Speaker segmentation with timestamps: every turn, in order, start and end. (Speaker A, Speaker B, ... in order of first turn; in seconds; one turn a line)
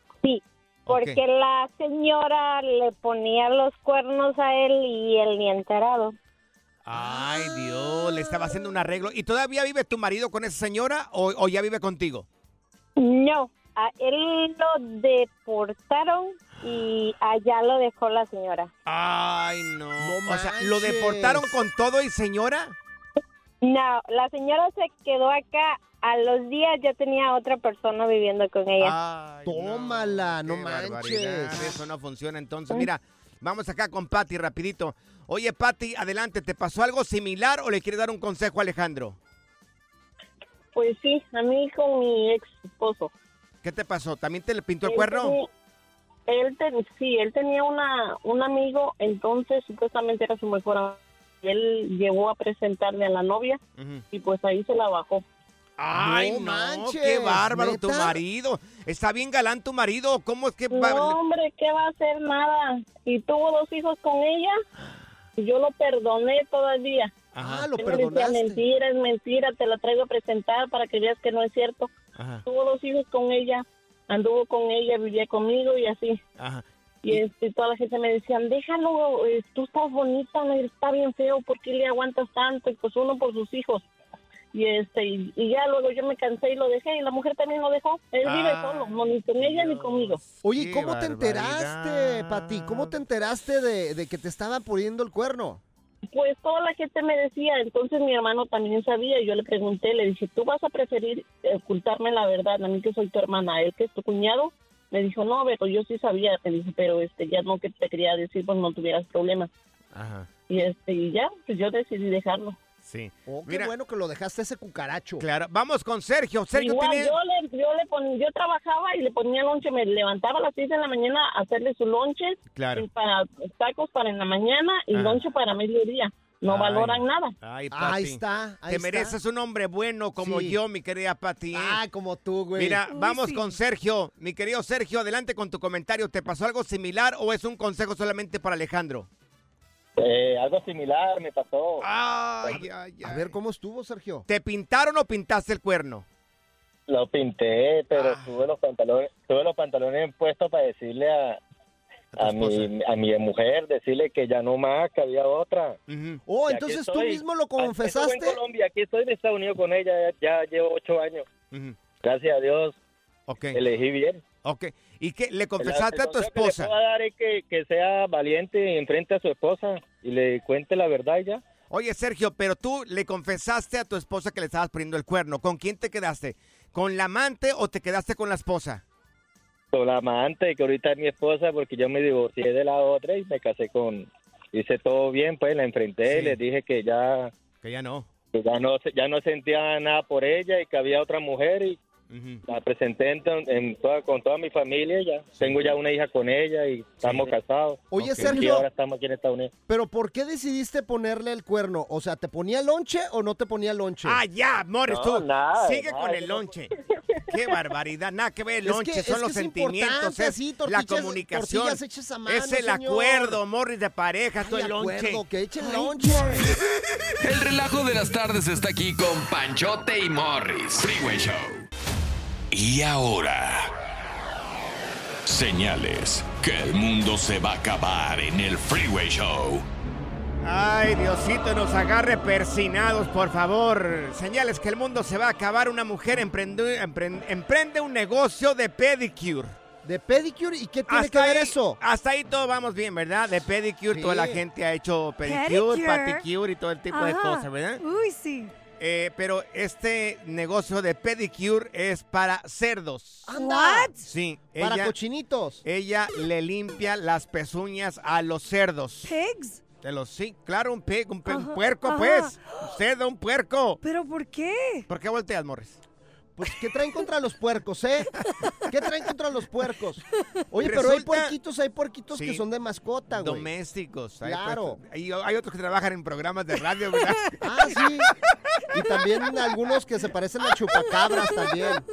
Speaker A: 0.2-6.2
Speaker B: 0.8-1.2
Speaker B: 6.8-12.2
Speaker A: 13.0-18.7
Speaker B: 18.9-22.7
Speaker C: 20.0-21.6
Speaker A: 23.6-28.9
Speaker B: 28.8-39.2
Speaker C: 29.4-31.7
Speaker D: 40.7-43.1
Speaker B: 43.6-45.4
Speaker D: 44.8-45.5
Speaker D: 46.3-53.6
Speaker B: 53.8-54.0
Speaker D: 54.1-55.2
Speaker B: 55.8-61.2
Speaker C: 55.9-58.2
Speaker D: 60.7-64.6
Speaker B: 64.8-65.0
Speaker D: 65.4-67.1
Speaker B: 67.3-67.7
Speaker C: 67.4-68.6
Speaker D: 67.7-71.9
Speaker B: 72.1-72.4
Speaker D: 72.5-76.2
Speaker B: 76.4-77.2
Speaker D: 77.0-83.9
Speaker D: 84.5-90.2
Speaker B: 88.2-93.0
Speaker C: 90.4-95.6
Speaker D: 96.1-109.5
Speaker B: 109.9-110.3
Speaker D: 110.5-112.6
Speaker B: 112.8-113.7
Speaker C: 113.3-115.2
Speaker B: 115.2-117.1
Speaker D: 116.5-127.3
Speaker B: 122.5-122.8
Speaker B: 124.9-125.2
Speaker B: 126.5-131.8
Speaker C: 127.7-129.2
Speaker C: 130.2-130.6
Speaker C: 131.5-132.8
Speaker B: 132.6-139.1
Speaker E: 132.9-133.6
Speaker F: 140.0-141.8
Speaker B: 141.8-143.3
Speaker C: 143.0-144.2
Speaker B: 144.3-146.1
Speaker F: 146.9-151.4
Speaker B: 147.9-148.4
Speaker B: 152.1-152.7
Speaker F: 152.2-155.8
Speaker B: 155.9-156.2
Speaker C: 156.3-158.4
Speaker F: 156.4-161.2
Speaker B: 161.5-161.8
Speaker F: 162.0-162.8
Speaker B: 163.3-163.6
Speaker F: 163.5-164.2
Speaker B: 164.4-166.7
Speaker F: 165.6-171.4
Speaker B: 171.7-178.8
Speaker F: 179.7-187.3
Speaker B: 186.0-186.4
Speaker B: 187.6-188.1
Speaker F: 188.3-191.8
Speaker B: 192.1-192.4
Speaker F: 192.4-199.5
Speaker B: 195.3-195.8
Speaker B: 197.0-197.3
Speaker C: 197.9-198.7
Speaker B: 198.0-198.4
Speaker C: 199.7-204.2
Speaker B: 204.0-206.7
Speaker F: 204.9-206.5
Speaker B: 207.3-215.2
Speaker C: 208.6-213.4
Speaker C: 214.4-216.6
Speaker G: 217.2-221.6
Speaker G: 222.5-223.7
Speaker G: 225.2-229.6
Speaker B: 230.4-239.5
Speaker C: 239.8-241.8
Speaker B: 240.9-247.8
Speaker C: 243.9-244.4
Speaker E: 245.2-246.2
Speaker E: 246.9-248.5
Speaker B: 248.8-253.3
Speaker C: 253.2-253.9
Speaker E: 253.3-254.1
Speaker B: 254.0-254.9
Speaker C: 254.6-255.6
Speaker B: 255.6-259.1
Speaker E: 259.0-259.6
Speaker B: 259.8-263.8
Speaker E: 261.2-262.7
Speaker E: 263.8-264.9
Speaker B: 264.9-265.8
Speaker C: 266.4-268.1
Speaker C: 268.7-273.5
Speaker B: 270.6-271.3
Speaker B: 272.1-272.4
Speaker B: 273.1-277.9
Speaker C: 274.2-274.8
Speaker E: 277.1-277.5
Speaker C: 277.4-278.1
Speaker C: 278.7-281.8
Speaker E: 281.0-281.8